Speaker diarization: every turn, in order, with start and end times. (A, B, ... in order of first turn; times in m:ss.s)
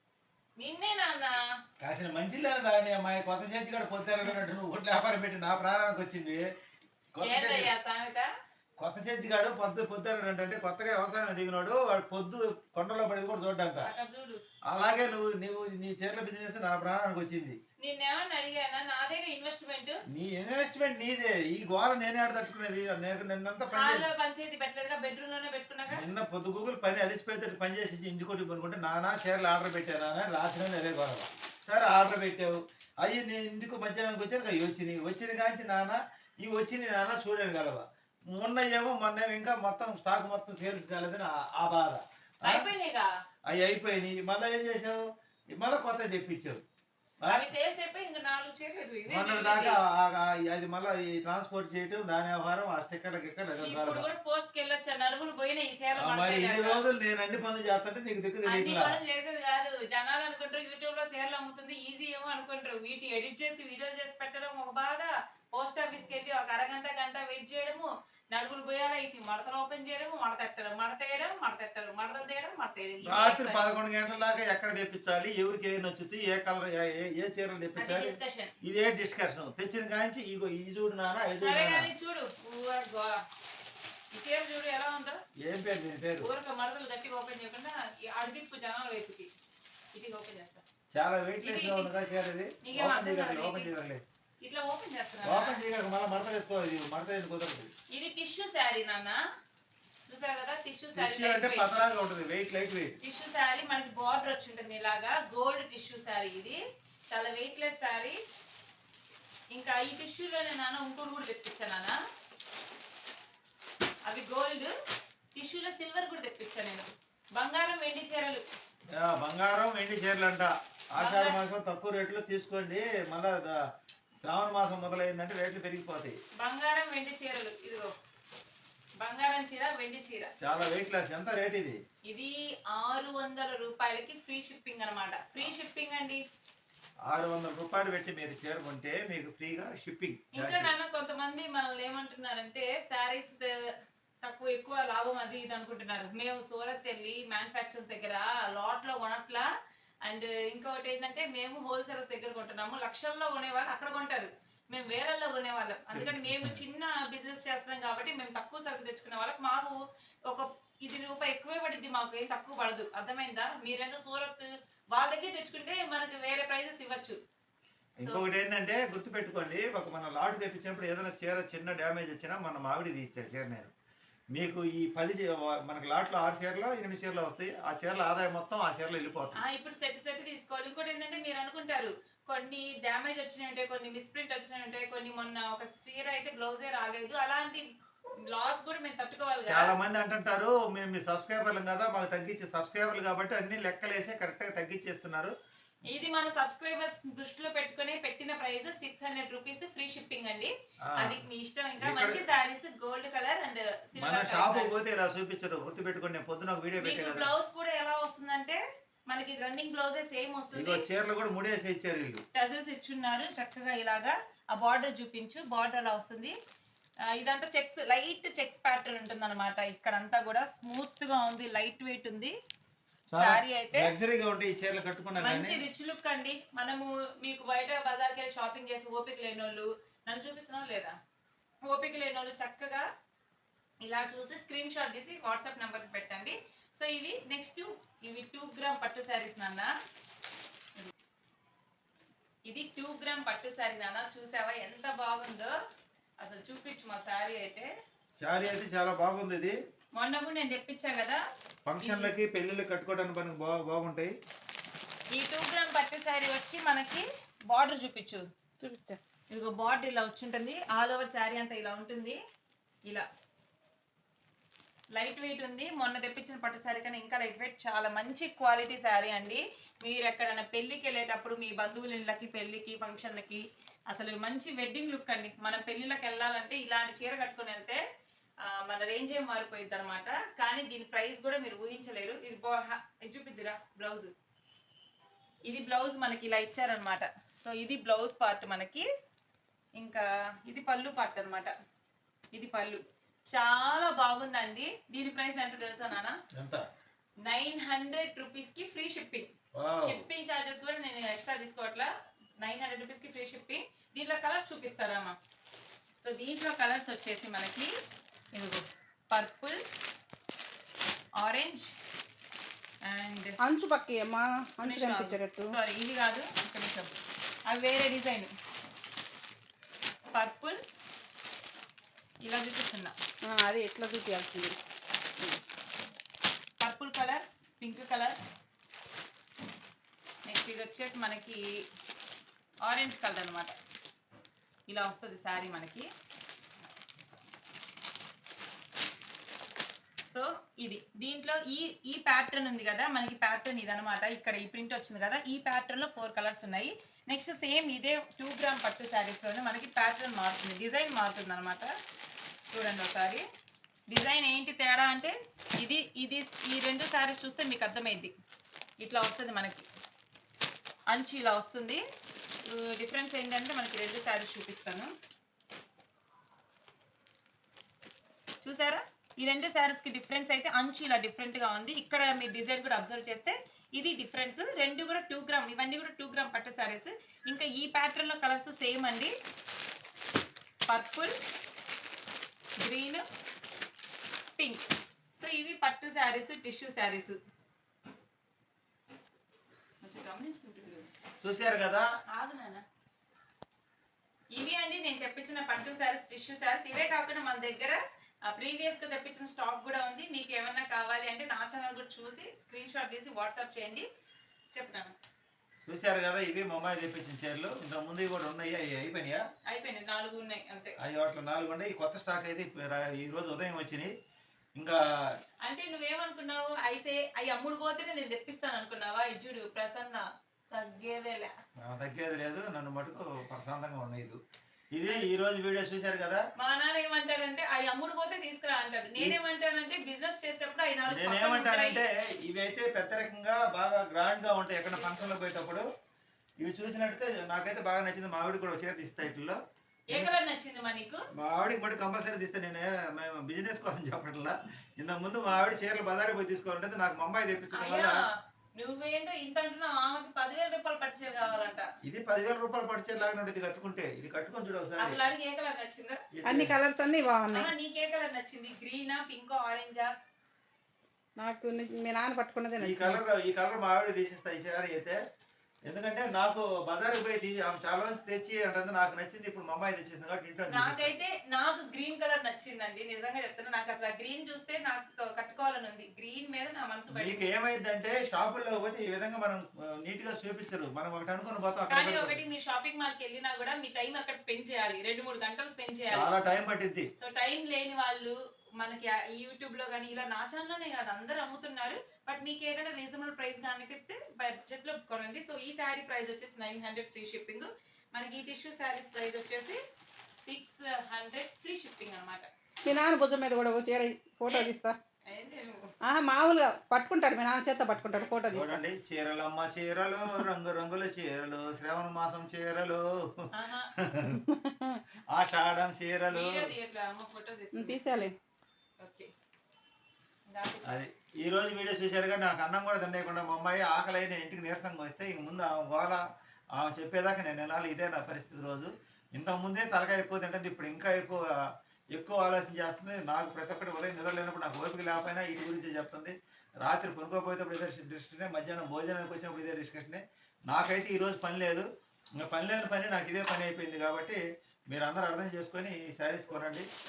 0:00.6-0:01.4 A
0:01.8-0:06.4 B
0:07.1-0:07.7 B
0:07.2-0:08.3 A
0:08.8-0:13.9 B
0:13.8-0:14.4 A
0:14.7-0:17.6 B
0:17.8-0:20.0 A
0:20.1-0:24.1 B
0:23.7-0:26.0 A
0:25.9-0:42.6 B
0:42.4-0:43.1 A
0:43.5-0:45.0 B
0:45.5-0:46.6 B
0:47.2-0:49.8 A
0:49.1-0:54.1 B
0:53.6-0:56.8 A
0:56.0-0:59.0 B
0:58.4-1:13.6 A
1:13.0-1:21.9 B
1:17.8-1:18.5 A
1:21.4-1:23.2 A
1:24.1-1:25.2 A
1:25.4-1:26.3 B
1:26.2-1:29.3 A
1:29.9-1:30.6 A
1:30.9-1:34.0 B
1:31.4-1:31.9 A
1:32.6-1:33.7 A
1:34.4-1:35.6 A
1:35.2-1:37.7 B
1:37.9-1:39.2 A
1:40.1-1:41.7 A
1:41.0-1:43.0 B
1:43.0-1:48.2 A
1:49.5-1:51.9 A
1:54.0-1:54.7 A
1:55.3-1:58.4 A
1:58.9-2:03.6 B
2:01.0-2:01.4 A
2:04.2-2:06.2 B
2:06.4-2:07.9 A
2:09.0-2:10.3 A
2:10.4-2:11.8 B
2:12.1-2:16.2 A
2:17.0-2:20.7 B
2:20.3-2:23.5 A
2:24.2-2:29.5 A
2:30.0-2:39.8 A
2:35.9-2:36.6 B
2:40.3-2:47.2 A
2:48.0-2:53.7 B
2:54.3-2:59.4 B
2:59.4-3:07.6 A
3:08.2-3:09.7 A
3:09.4-3:15.3 B
3:15.9-3:24.7 A
3:20.8-3:21.2 B
3:21.8-3:22.3 B
3:24.0-3:27.3 B
3:26.8-3:30.8 A
3:30.5-3:32.2 B
3:32.3-3:36.3 A
3:37.1-3:42.3 A
3:43.1-3:45.6 B
3:43.2-3:43.9 A
3:45.2-3:50.9 A
3:51.6-3:52.8 A
3:53.8-3:59.7 A
4:02.5-4:05.5 A
4:06.2-4:07.7 A
4:08.2-4:09.6 B
4:09.9-4:11.2 A
4:11.6-4:14.1 B
4:11.8-4:12.1 A
4:15.1-4:18.2 A
4:18.6-4:19.0 C
4:19.3-4:22.2 A
4:24.9-4:37.8 A
4:38.4-4:44.1 A
4:45.4-4:48.9 A
4:49.8-4:51.5 A
4:52.3-4:56.2 A
4:56.3-4:56.6 B
4:57.2-5:01.9 A
4:59.6-5:00.1 B
5:02.4-5:05.2 A
5:06.0-5:07.7 A
5:08.3-5:09.6 A
5:11.2-5:11.7 A
5:12.8-5:13.4 A
5:13.4-5:15.5 C
5:14.6-5:16.9 A
5:17.5-5:18.3 A
5:20.1-5:20.6 A
5:22.2-5:22.9 A
5:23.2-5:24.6 C
5:26.6-5:28.2 A
5:30.2-5:31.4 A
5:32.6-5:33.5 A
5:34.7-5:35.9 A
5:40.1-5:51.7 A
5:52.5-5:53.2 A
5:53.9-5:58.1 A
5:58.8-5:59.6 A
6:00.9-6:01.8 A
6:02.4-6:04.9 A
6:08.4-6:19.1 A
6:20.7-6:21.1 A
6:22.6-6:23.0 A
6:24.4-6:27.2 A
6:29.8-6:30.9 A
6:31.2-6:31.9 B
6:32.1-6:32.6 A
6:34.3-6:43.9 A
6:44.5-6:44.9 A
6:45.6-6:49.2 B
6:49.5-6:50.8 A
6:50.8-6:53.9 B
6:55.4-7:01.3 A
7:01.6-7:04.2 B
7:04.7-7:06.2 B
7:06.4-7:11.8 A
7:10.9-7:15.6 B
7:16.4-7:19.4 B
7:19.9-7:21.0 A
7:21.2-7:28.0 B
7:27.5-7:31.6 A
7:31.8-7:35.0 B
7:34.8-7:36.0 A
7:36.1-7:36.5 B
7:36.2-7:37.5 C
7:37.3-7:39.9 A
7:41.2-7:43.0 C
7:42.6-7:45.0 B
7:45.7-7:51.0 B
7:50.5-7:57.3 A
7:56.9-8:02.2 B
8:01.7-8:06.1 A
8:05.9-8:06.9 B
8:07.0-8:19.6 A
8:20.2-8:22.3 A
8:22.6-8:24.8 C
8:25.1-8:25.7 A
8:25.8-8:28.6 C
8:28.3-8:34.2 B
8:33.3-8:33.7 A
8:34.1-8:34.8 C
8:35.1-8:36.5 B
8:36.1-8:37.8 A
8:37.5-8:38.1 C
8:38.8-8:39.1 A
8:40.3-8:40.7 A
8:40.6-8:46.0 B
8:46.5-8:51.2 B
8:51.9-9:01.6 B
9:02.2-9:06.7 B